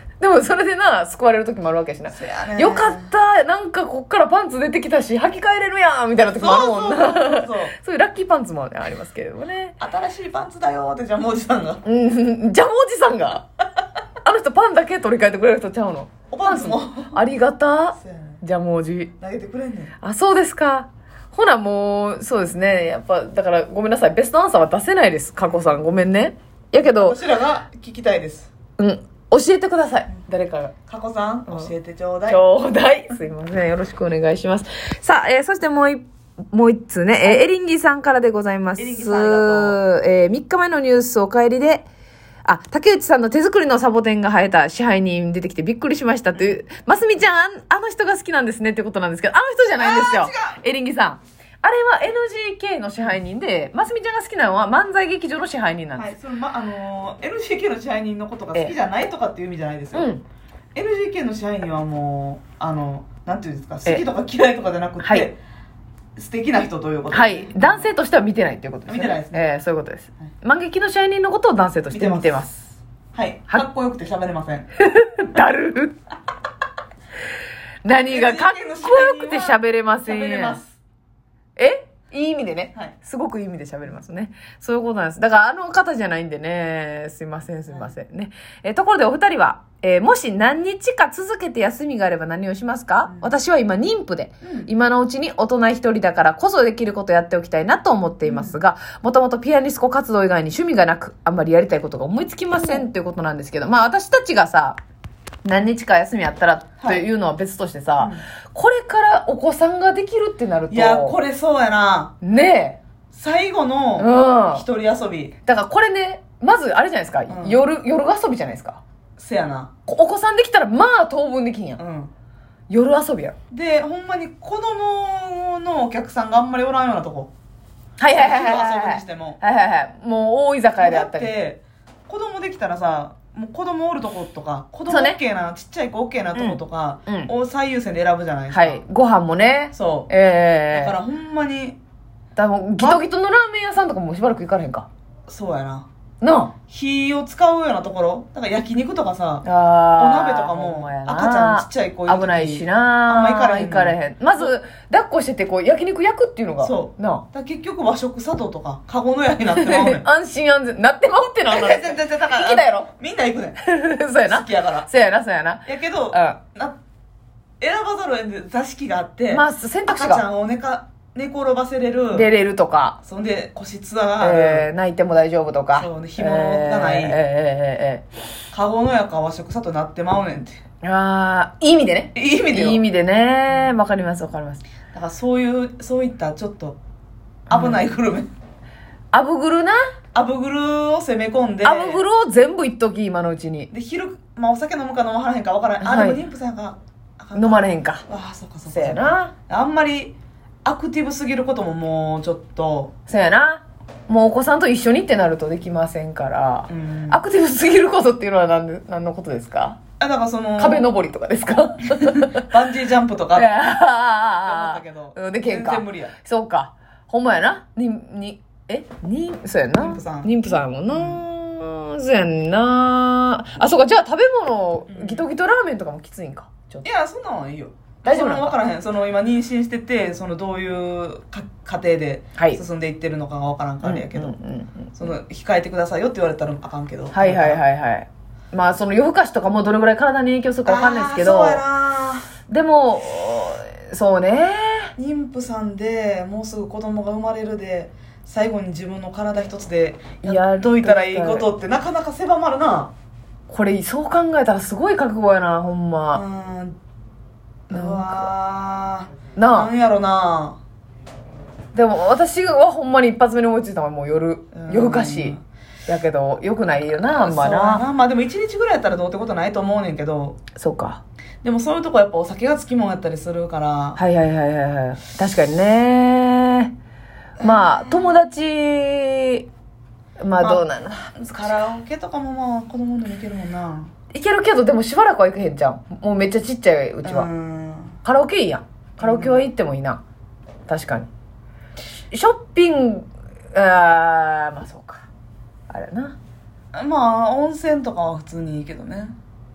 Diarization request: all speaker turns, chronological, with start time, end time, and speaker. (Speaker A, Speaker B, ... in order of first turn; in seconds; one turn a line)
Speaker A: 0.2-9.7
Speaker B: 2.1-3.1
Speaker B: 6.3-7.7
Speaker B: 9.8-11.8
Speaker A: 11.8-13.4
Speaker A: 14.2-19.1
Speaker B: 16.3-17.2
Speaker B: 17.9-18.4
Speaker B: 19.2-19.9
Speaker A: 20.0-27.2
Speaker B: 25.4-25.8
Speaker B: 26.7-28.5
Speaker A: 28.8-30.7
Speaker B: 30.9-32.4
Speaker A: 32.3-41.9
Speaker B: 38.8-39.8
Speaker A: 42.4-56.1
Speaker B: 49.8-50.6
Speaker B: 56.0-60.1
Speaker A: 59.9-60.2
Speaker B: 60.7-65.4
Speaker A: 65.0-65.3
Speaker B: 66.2-67.9
Speaker A: 67.1-72.7
Speaker B: 68.9-69.5
Speaker B: 71.9-72.4
Speaker B: 73.1-74.7
Speaker A: 74.8-76.0
Speaker A: 77.8-80.6
Speaker B: 78.0-80.8
Speaker A: 81.6-104.8
Speaker B: 93.1-93.3
Speaker B: 94.4-94.7
Speaker B: 98.2-98.6
Speaker B: 102.5-102.8
Speaker A: 105.4-111.2
Speaker B: 108.0-108.2
Speaker B: 110.7-112.1
Speaker A: 112.2-112.8
Speaker B: 113.1-115.3
Speaker A: 114.0-114.6
Speaker A: 115.4-118.8
Speaker B: 117.3-117.6
Speaker B: 119.2-119.7
Speaker A: 119.8-121.8
Speaker B: 121.8-122.1
Speaker A: 122.7-123.3
Speaker B: 123.5-127.3
Speaker A: 128.0-131.3
Speaker B: 128.1-129.4
Speaker B: 130.8-138.8
Speaker A: 134.9-135.2
Speaker A: 136.3-137.3
Speaker A: 138.5-140.9
Speaker B: 139.7-140.1
Speaker B: 140.7-141.8
Speaker A: 142.3-144.9
Speaker B: 142.8-143.0
Speaker B: 145.3-145.9
Speaker A: 146.2-146.5
Speaker B: 146.7-149.4
Speaker A: 149.4-157.2
Speaker B: 149.9-154.5
Speaker B: 156.6-160.1
Speaker A: 159.5-162.9
Speaker B: 161.5-163.6
Speaker A: 163.6-166.4
Speaker B: 164.2-164.9
Speaker B: 165.6-166.8
Speaker B: 167.6-172.3
Speaker A: 169.3-170.2
Speaker A: 172.1-173.0
Speaker B: 173.0-174.7
Speaker A: 174.2-178.0
Speaker B: 175.7-177.2
Speaker B: 178.5-180.6
Speaker A: 180.8-184.6
Speaker B: 182.1-182.8
Speaker B: 184.9-186.8
Speaker A: 187.5-187.8
Speaker B: 187.5-188.3
Speaker A: 189.1-189.8
Speaker B: 190.1-192.0
Speaker A: 191.6-193.7
Speaker B: 193.7-202.9
Speaker A: 195.8-196.2
Speaker A: 197.3-198.0
Speaker A: 198.7-199.3
Speaker A: 203.1-209.8
Speaker B: 206.7-207.2
Speaker B: 210.0-210.9
Speaker A: 210.6-212.5
Speaker B: 212.0-213.5
Speaker A: 213.3-226.8
Speaker B: 214.4-216.1
Speaker B: 219.7-220.3
Speaker B: 220.9-221.2
Speaker B: 224.9-225.3
Speaker B: 226.8-234.4
Speaker A: 228.0-228.6
Speaker A: 233.8-235.1
Speaker B: 234.9-237.6
Speaker A: 237.1-241.6
Speaker B: 240.7-242.2
Speaker A: 242.5-244.9
Speaker B: 245.0-252.9
Speaker A: 250.2-251.5
Speaker A: 253.5-256.2
Speaker B: 256.1-256.8
Speaker B: 257.7-260.6
Speaker A: 257.7-258.3
Speaker A: 259.4-259.7
Speaker A: 261.7-265.4
Speaker B: 264.5-265.4
Speaker A: 265.9-267.8
Speaker B: 267.1-270.4
Speaker A: 270.5-271.0
Speaker B: 271.4-274.0
Speaker A: 274.0-276.7
Speaker B: 277.4-278.2
Speaker A: 277.4-279.5
Speaker A: 280.2-281.1
Speaker B: 280.4-283.9
Speaker A: 284.1-287.3
Speaker B: 287.0-288.0
Speaker A: 288.0-290.0
Speaker B: 289.0-289.4
Speaker A: 290.7-291.1
Speaker A: 292.1-295.1
Speaker A: 295.7-296.1
Speaker B: 296.7-299.1